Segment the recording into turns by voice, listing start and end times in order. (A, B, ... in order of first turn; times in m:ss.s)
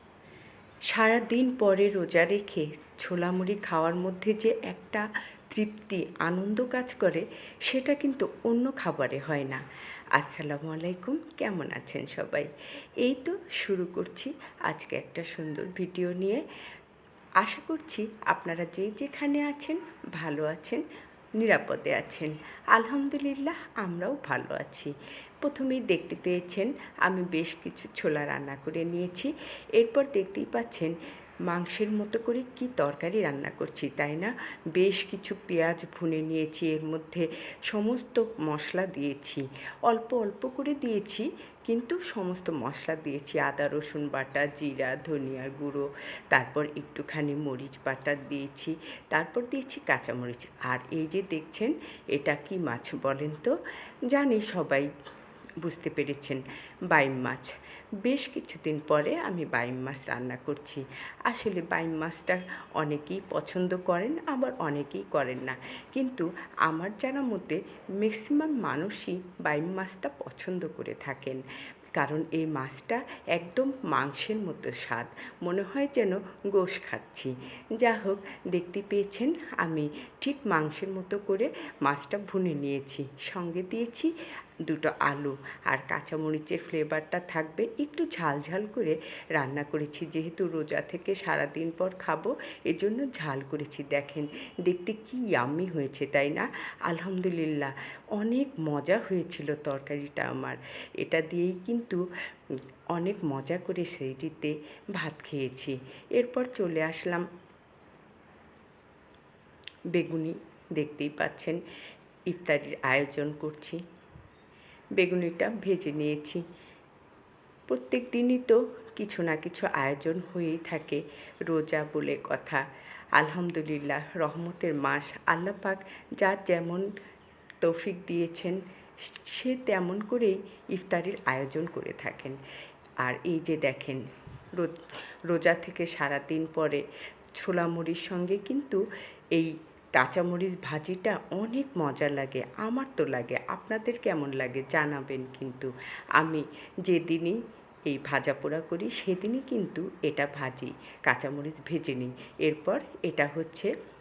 0:00.9-0:16.4 A
0:17.4-0:20.8 A
0:21.4-0:30.9 A
0:31.5-0:53.5 A
0:54.1-0:54.9 A
0:55.6-1:11.4 A
1:12.0-1:24.1 A
1:24.7-1:42.0 A
1:42.9-1:47.3 A
1:49.9-1:51.6 A
1:52.3-1:53.8 A
1:55.0-1:56.4 A
1:57.7-2:02.6 A
2:03.2-2:06.9 A
2:07.6-2:12.4 A
2:13.0-2:14.0 A
2:14.6-2:16.8 A
2:17.4-2:33.7 A